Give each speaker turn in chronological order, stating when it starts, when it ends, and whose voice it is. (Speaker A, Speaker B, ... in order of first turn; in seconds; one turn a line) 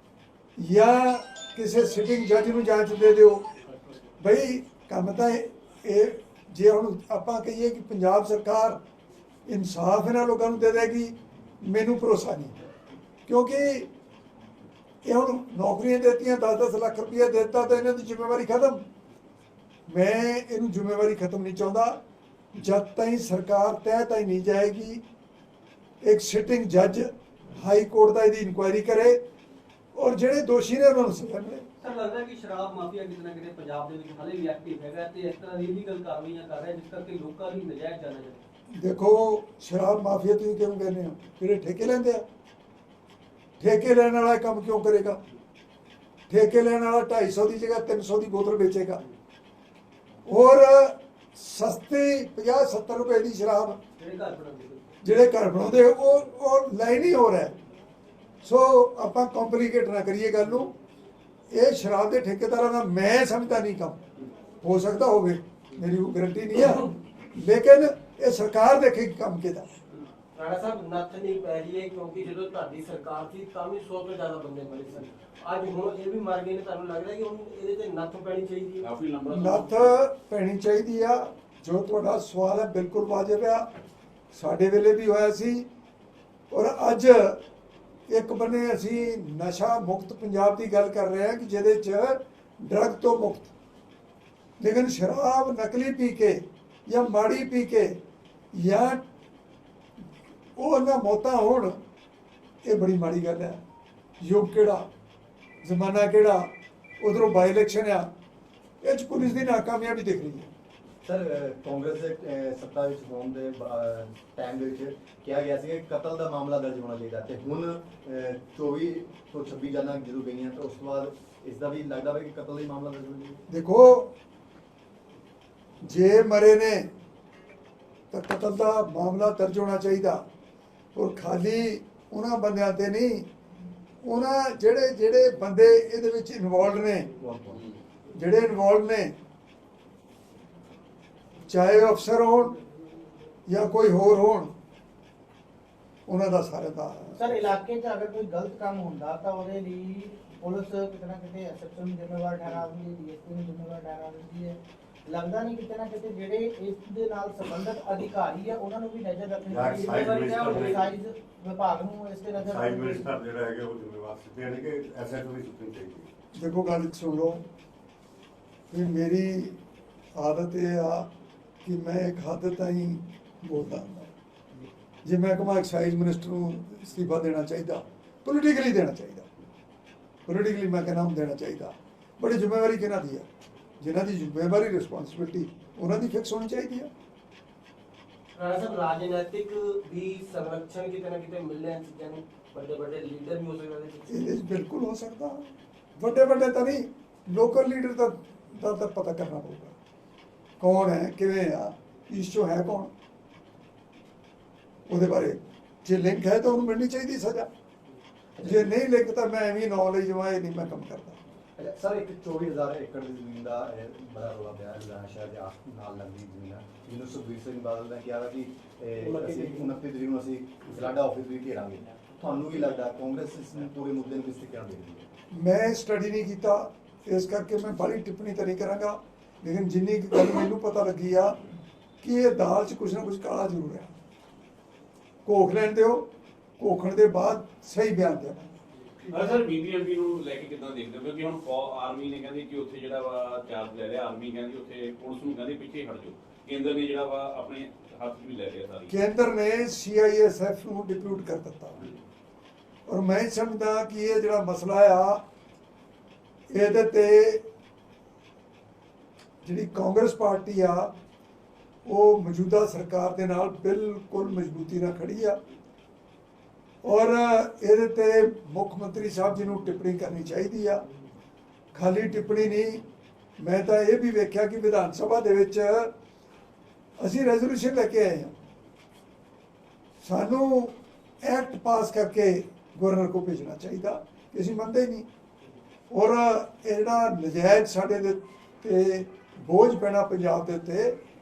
Speaker A: 0.6-3.5
Speaker A: 4.2-8.8
Speaker A: 9.5-12.6
Speaker A: 13.3-13.9
Speaker A: 15.1-18.9
Speaker A: 19.9-22.0
Speaker A: 22.6-25.0
Speaker A: 26.0-29.2
Speaker A: 29.9-31.7
Speaker B: 31.8-38.4
Speaker A: 38.8-42.3
Speaker A: 43.6-45.2
Speaker A: 46.3-49.0
Speaker A: 50.3-53.8
Speaker B: 54.0-54.9
Speaker A: 55.0-57.5
Speaker A: 58.4-60.7
Speaker A: 61.5-64.0
Speaker A: 64.6-69.7
Speaker C: 70.3-78.9
Speaker D: 78.8-79.9
Speaker A: 79.3-83.7
Speaker A: 84.3-85.7
Speaker A: 86.5-87.4
Speaker A: 88.1-93.5
Speaker A: 94.6-98.0
Speaker A: 98.5-99.0
Speaker A: 100.6-101.8
Speaker A: 102.7-103.6
Speaker A: 104.2-104.9
Speaker A: 105.6-108.1
Speaker A: 108.8-110.5
Speaker E: 111.0-123.4
Speaker A: 123.5-124.1
Speaker A: 125.8-126.9
Speaker A: 128.1-130.2
Speaker A: 130.9-133.3
Speaker A: 134.0-137.1
Speaker E: 137.2-137.6
Speaker A: 138.2-139.2
Speaker A: 141.5-142.6
Speaker A: 143.5-144.5
Speaker A: 146.1-147.3
Speaker F: 147.2-163.1
Speaker G: 159.5-160.9
Speaker B: 159.7-160.8
Speaker C: 159.7-160.3
Speaker G: 162.4-166.1
Speaker A: 166.4-167.4
Speaker A: 168.7-169.6
Speaker A: 170.2-171.1
Speaker A: 171.7-174.1
Speaker A: 175.1-179.3
Speaker A: 180.3-183.3
Speaker A: 183.8-186.9
Speaker C: 188.3-194.3
Speaker A: 194.1-199.8
Speaker A: 200.6-202.9
Speaker A: 204.9-207.5
Speaker E: 208.4-208.7
Speaker A: 208.4-211.2
Speaker E: 211.6-225.1
Speaker C: 219.1-219.5
Speaker A: 225.3-231.4
Speaker A: 232.0-233.9
Speaker A: 235.2-238.5
Speaker D: 239.1-248.9
Speaker A: 248.9-251.9
Speaker A: 252.9-255.2
Speaker A: 256.5-257.4
Speaker A: 259.4-260.9
Speaker A: 261.9-265.4
Speaker A: 266.8-270.9
Speaker A: 271.7-272.8
Speaker A: 273.4-275.9
Speaker A: 277.0-278.3
Speaker A: 280.0-285.1
Speaker A: 285.9-291.0